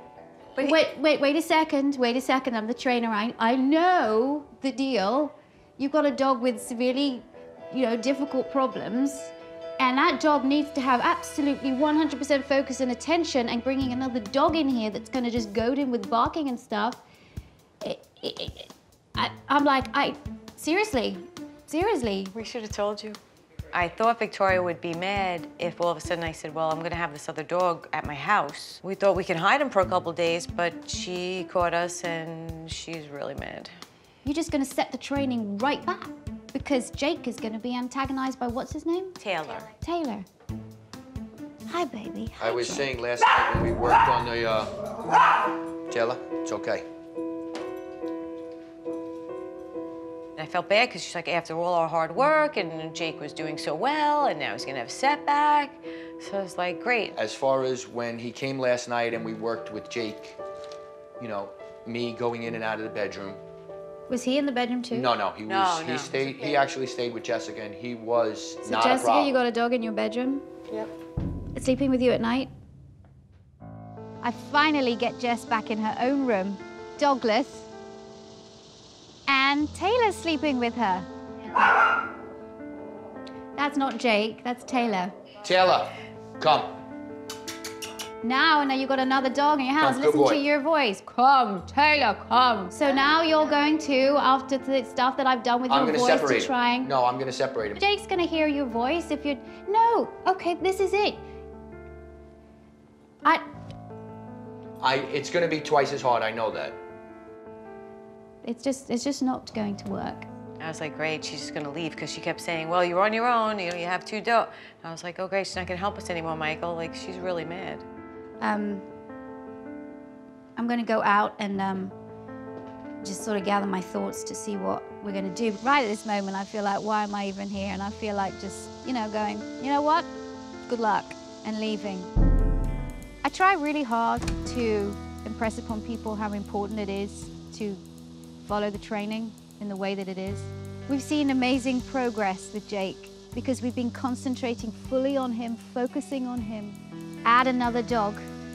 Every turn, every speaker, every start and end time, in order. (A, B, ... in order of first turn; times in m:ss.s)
0:00.6-0:17.0 A
0:17.8-0:22.3 A
0:22.3-0:23.2 B
0:23.7-0:33.7 B
0:34.2-0:39.2 A
0:39.2-0:39.7 B
0:39.8-0:40.2 A
0:41.7-0:42.9 A
0:42.4-0:44.8 C
0:45.9-0:46.8 C
0:50.4-0:57.2 B
0:57.1-1:00.4 C
1:01.2-1:03.4 C
1:04.1-1:05.1 A
1:04.9-1:09.3 C
1:05.4-1:06.5 B
1:08.6-1:10.5 A
1:11.5-1:12.5 A
1:14.2-1:17.7 A
1:19.3-1:21.1 A
1:23.6-1:25.1 A
1:25.4-1:26.8 C
1:28.2-1:36.9 A
1:29.8-1:30.4 C
1:35.7-1:37.8 C
1:37.8-1:41.2 A
1:44.8-1:46.8 C
1:48.4-1:50.3 A
1:50.6-1:57.8 B
1:58.4-1:58.9 A
2:00.6-2:01.9 A
2:03.0-2:10.1 A
2:10.7-2:12.1 A
2:13.2-2:17.8 A
2:18.4-2:28.3 A